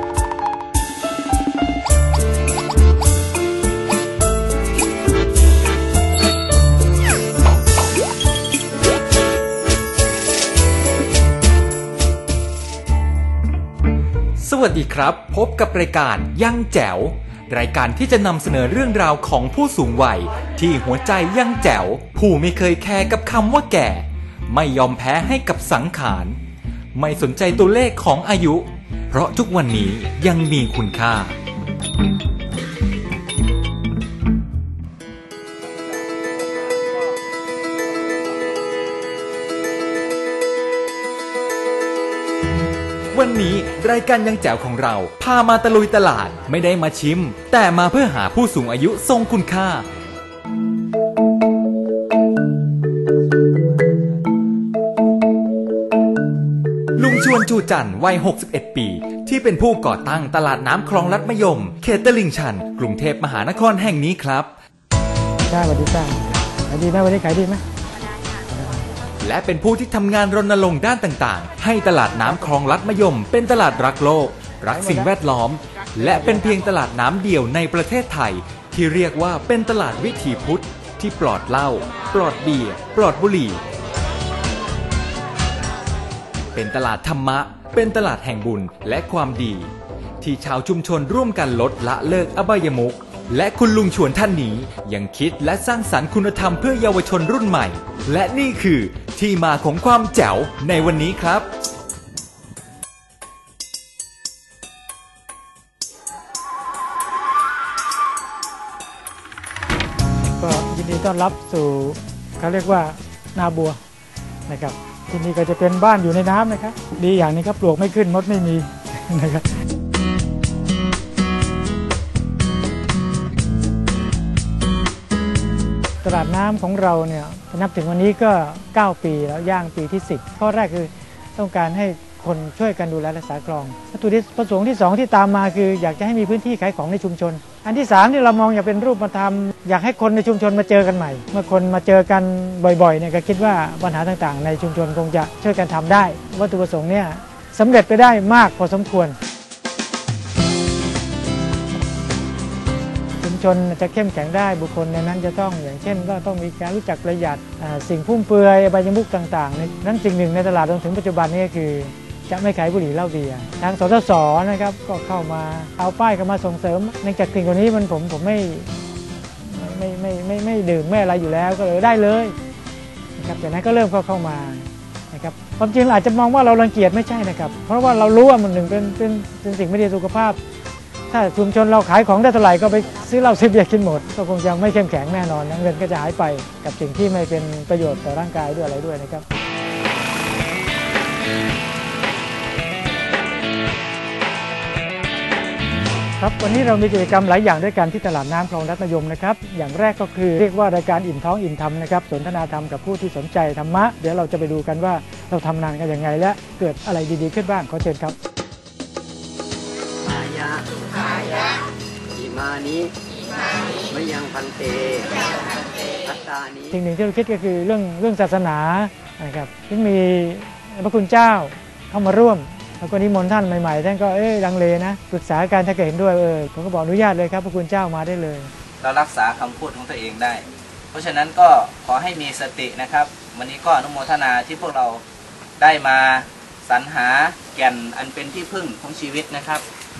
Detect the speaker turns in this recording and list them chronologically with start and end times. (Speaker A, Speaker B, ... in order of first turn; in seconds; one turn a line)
Speaker A: 14.4-26.4
Speaker A: 26.9-31.4
Speaker A: 43.1-49.9
Speaker A: 57.0-64.5
Speaker B: 65.5-67.6
Speaker A: 69.2-83.6
Speaker B: 74.7-75.1
Speaker B: 76.0-76.4
Speaker A: 86.5-101.5
Speaker B: 110.4-113.8
Speaker B: 114.5-119.5
Speaker B: 126.0-149.2
Speaker B: 153.2-168.7
Speaker B: 169.4-172.3
Speaker B: 173.2-180.4
Speaker B: 181.1-189.2
Speaker B: 196.2-208.1
Speaker C: 210.0-211.4
Speaker C: 212.1-212.9
Speaker C: 213.8-215.1
Speaker C: 216.0-216.8
Speaker B: 216.7-228.5
Speaker D: 228.8-235.0
Speaker D: 235.6-239.6